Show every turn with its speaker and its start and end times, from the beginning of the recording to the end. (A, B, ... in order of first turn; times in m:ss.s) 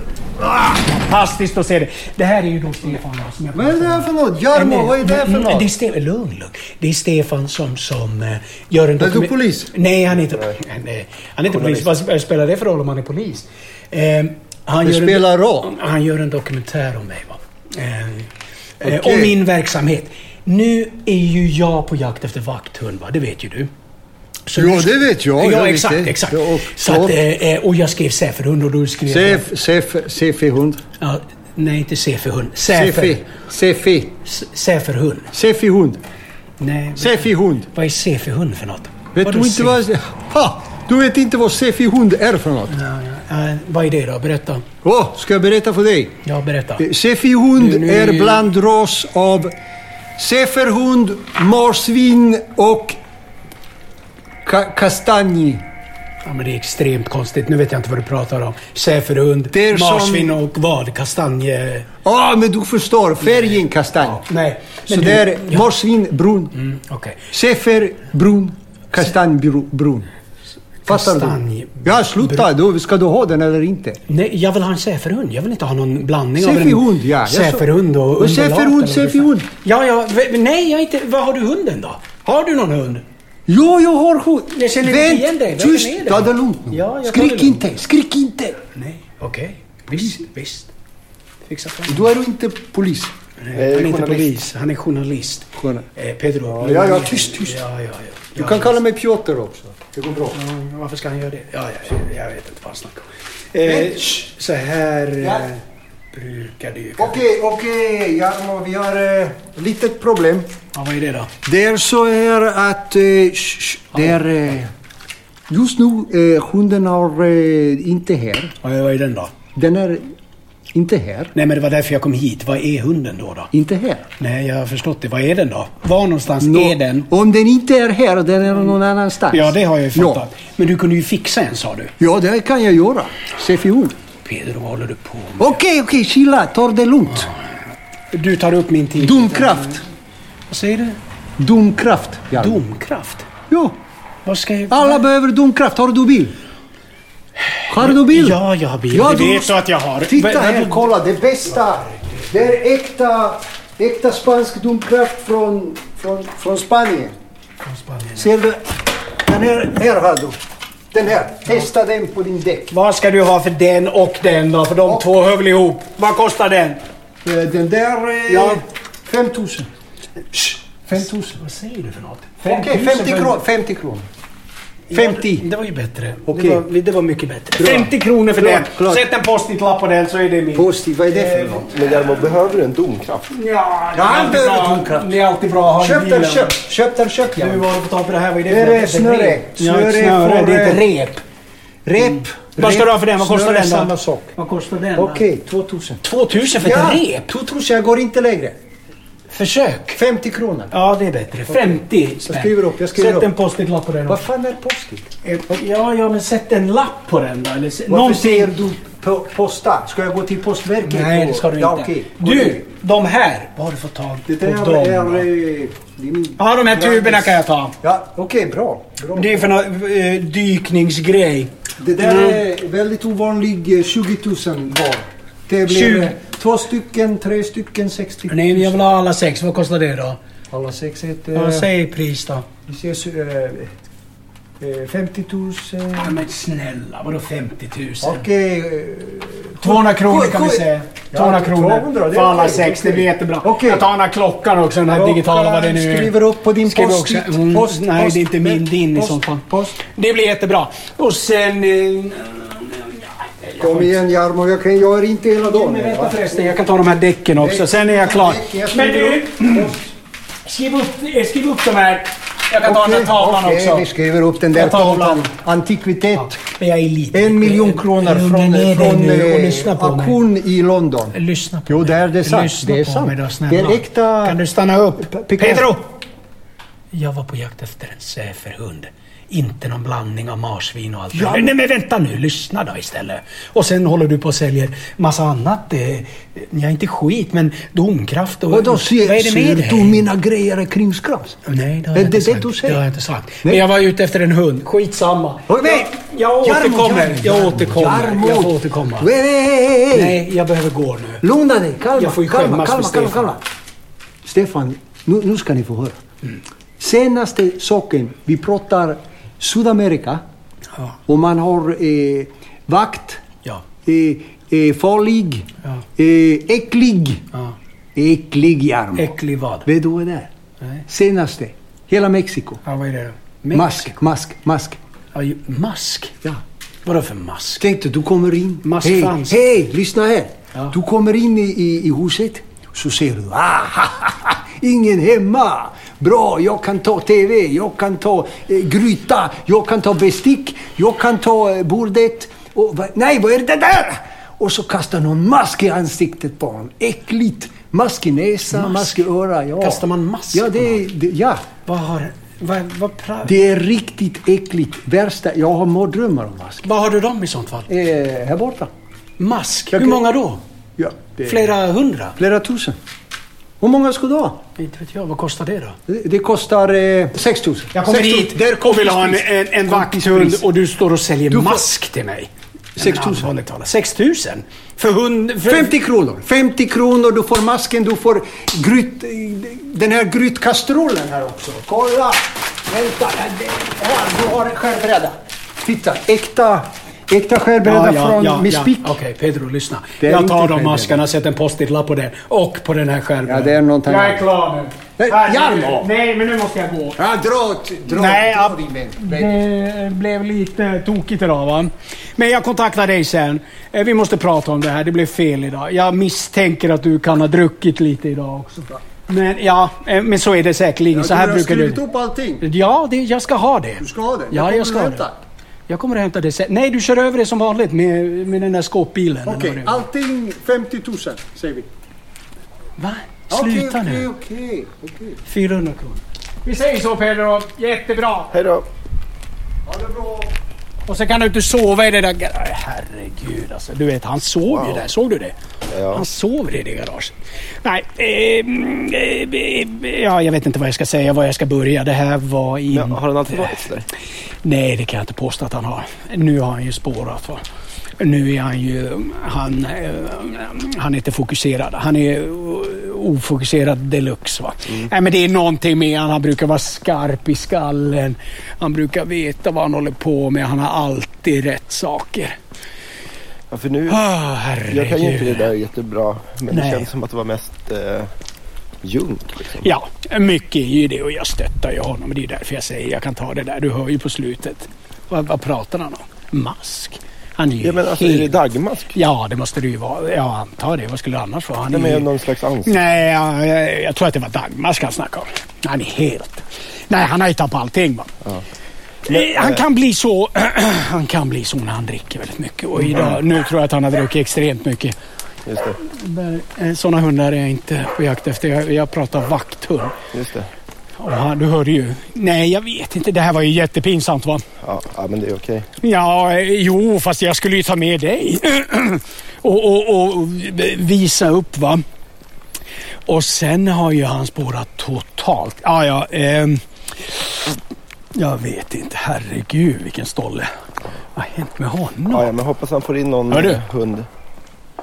0:00.4-0:23.7 A
0:03.5-0:05.7 B
0:09.0-0:09.7 B
0:11.5-0:11.9 C
0:14.8-0:15.7 B
0:18.8-0:19.4 B
0:24.5-0:29.5 A
0:24.5-0:27.2 B
0:29.1-0:30.8 B
0:31.0-0:33.2 A
0:32.7-0:34.2 B
0:34.2-0:35.3 A
0:35.3-0:36.0 B
0:36.6-0:39.8 A
0:37.0-0:37.7 B
0:39.1-0:42.7 B
0:42.7-0:44.6 A
0:44.8-0:46.1 B
0:46.2-0:46.8 A
0:46.8-0:49.5 B
0:47.6-0:48.5 A
0:50.2-0:53.0 B
0:54.4-0:55.6 B
0:56.2-1:01.9 A
0:59.5-1:00.4 B
1:02.0-1:04.2 B
1:03.2-1:05.6 A
1:04.9-1:06.5 B
1:06.5-1:07.2 A
1:07.3-1:10.1 B
1:10.9-1:12.5 A
1:10.9-1:14.0 B
1:14.1-1:23.0 A
1:16.4-1:19.5 B
1:23.5-1:28.6 B
1:24.5-1:27.6 A
1:28.7-1:30.7 A
1:29.9-1:30.2 B
1:31.4-1:32.0 A
1:31.9-1:33.1 B
1:33.4-1:38.8 A
1:33.5-1:34.3 C
1:35.6-1:35.8 B
1:36.5-1:37.6 B
1:38.3-1:40.4 B
1:40.3-1:47.2 A
1:43.6-1:44.1 B
1:45.2-1:45.5 B
1:47.0-1:50.5 B
1:50.7-1:51.3 A
1:51.4-1:54.7 B
1:55.5-1:58.5 B
1:58.6-1:59.3 A
1:59.5-2:00.0 B
2:00.7-2:01.3 B
2:01.3-2:03.5 A
2:03.5-2:04.0 B
2:04.2-2:07.1 A
2:06.4-2:10.2 B
2:09.3-2:11.9 A
2:12.0-2:14.0 B
2:14.2-2:15.6 A
2:15.4-2:17.3 B
2:18.1-2:19.8 A
2:19.0-2:19.8 B
2:20.5-2:21.0 A
2:21.4-2:22.6 B
2:22.3-2:23.3 A
2:23.5-2:23.8 B
2:24.2-2:25.0 A
2:24.7-2:26.3 B
2:27.6-2:30.9 A
2:27.7-2:29.5 B
2:30.0-2:37.1 B
2:31.9-2:32.3 A
2:37.6-2:38.3 A
2:38.2-2:40.4 B
2:40.9-2:42.7 B
2:42.7-2:46.8 A
2:47.2-2:49.7 B
2:48.3-2:48.6 A
2:50.3-2:53.4 A
2:50.6-2:51.4 B
2:52.4-2:54.0 B
2:54.9-3:02.0 A
2:54.9-2:55.5 B
2:56.3-2:56.6 B
2:57.6-2:59.0 B
3:00.5-3:01.7 B
3:01.7-3:03.2 C
3:03.3-3:06.6 A
3:03.9-3:05.1 B
3:05.8-3:07.6 B
3:07.3-3:11.2 A
3:08.5-3:10.8 B
3:11.8-3:14.3 B
3:12.0-3:15.2 A
3:15.0-3:16.0 B
3:16.0-3:17.3 A
3:16.5-3:18.6 B
3:19.3-3:20.0 A
3:19.9-3:20.7 B
3:20.7-3:24.2 A
3:21.5-3:23.3 B
3:24.1-3:25.1 B
3:25.2-3:28.5 A
3:27.9-3:32.7 B
3:30.8-3:35.2 A
3:34.3-3:39.6 B
3:36.4-3:37.7 A
3:39.1-3:42.4 A
3:41.8-3:48.8 B
3:45.7-3:46.1 A
3:48.3-3:50.2 A
3:50.5-3:51.7 B
3:51.3-3:52.5 A
3:52.7-3:53.7 B
3:54.6-3:56.2 B
3:56.0-3:58.2 A
3:58.0-4:03.8 B
3:59.6-4:14.0 A
4:04.9-4:09.8 B
4:13.6-4:16.5 B
4:15.4-4:19.7 A
4:17.3-4:19.9 B
4:20.4-4:23.8 A
4:22.6-4:26.4 B
4:24.5-4:25.3 A
4:26.2-4:30.2 A
4:27.1-4:31.2 B
4:31.1-4:35.8 A
4:31.7-4:34.4 B
4:35.0-4:35.7 B
4:36.9-4:50.0 A
4:41.1-4:41.5 B
4:48.5-4:51.4 B
4:51.4-4:59.1 A
4:51.9-4:52.8 B
4:55.5-5:00.2 B
4:59.9-5:01.2 A
5:01.2-5:03.4 B
5:01.9-5:03.3 A
5:04.2-5:06.0 B
5:06.8-5:10.2 B
5:11.1-5:13.2 B
5:13.8-5:15.4 B
5:16.0-5:17.2 B
5:17.9-5:19.1 B
5:19.0-5:19.7 A
5:19.6-5:20.3 B
5:20.9-5:22.6 B
5:22.6-5:24.0 A
5:23.4-5:24.8 B
5:25.1-5:26.1 A
5:26.8-5:27.6 A
5:27.6-5:51.4 B
5:28.6-5:29.4 A
5:48.5-5:49.0 A
5:49.6-5:50.8 A
5:51.6-5:53.4 A
5:53.2-5:56.6 B
5:56.6-5:57.7 A
5:57.7-5:58.7 B
5:59.2-6:00.4 A
5:59.7-6:00.0 B
6:00.8-6:01.5 B
6:01.2-6:02.2 A
6:02.2-6:02.8 B
6:03.6-6:04.4 B
6:04.6-6:05.8 A
6:05.9-6:10.4 B
6:07.7-6:15.7 A
6:11.3-6:11.7 B
6:12.8-6:13.3 B
6:15.5-6:28.9 B
6:27.6-6:37.0 A
6:30.0-6:31.0 B
6:33.2-6:34.3 B
6:35.0-6:35.9 B
6:37.0-6:39.3 B
6:37.9-6:51.8 A
6:50.9-6:52.4 B
6:52.4-6:55.1 A
6:53.8-6:55.2 B
6:55.7-6:59.8 A
6:59.2-7:01.7 B
7:02.8-7:04.1 A
7:03.3-7:05.2 B
7:05.2-7:08.3 A
7:08.3-7:08.6 C
7:09.6-7:10.3 B
7:10.8-7:15.3 A
7:14.5-7:14.8 C
7:15.7-7:16.0 C
7:15.9-7:23.7 A
7:22.7-7:23.8 C
7:24.4-7:27.4 A
7:28.0-7:42.4 A
7:43.5-7:44.0 C
7:43.9-7:45.5 A
7:44.6-7:48.1 C
7:46.5-7:46.9 A
7:48.8-7:49.7 C
7:49.6-7:58.4 A
7:57.6-7:58.9 C
7:58.9-8:02.1 A
8:01.7-8:02.8 C
8:02.6-8:08.1 A
8:09.0-8:14.9 A
8:09.1-8:09.6 C
8:12.8-8:13.2 C
8:15.4-8:15.8 C
8:15.8-8:19.9 A
8:20.1-8:20.5 C
8:21.0-8:24.4 A
8:24.6-8:25.7 C
8:25.8-8:31.8 A
8:33.1-8:37.6 A
8:38.1-8:40.5 A
8:41.1-8:42.3 A
8:42.1-8:44.1 C
8:43.3-8:43.6 A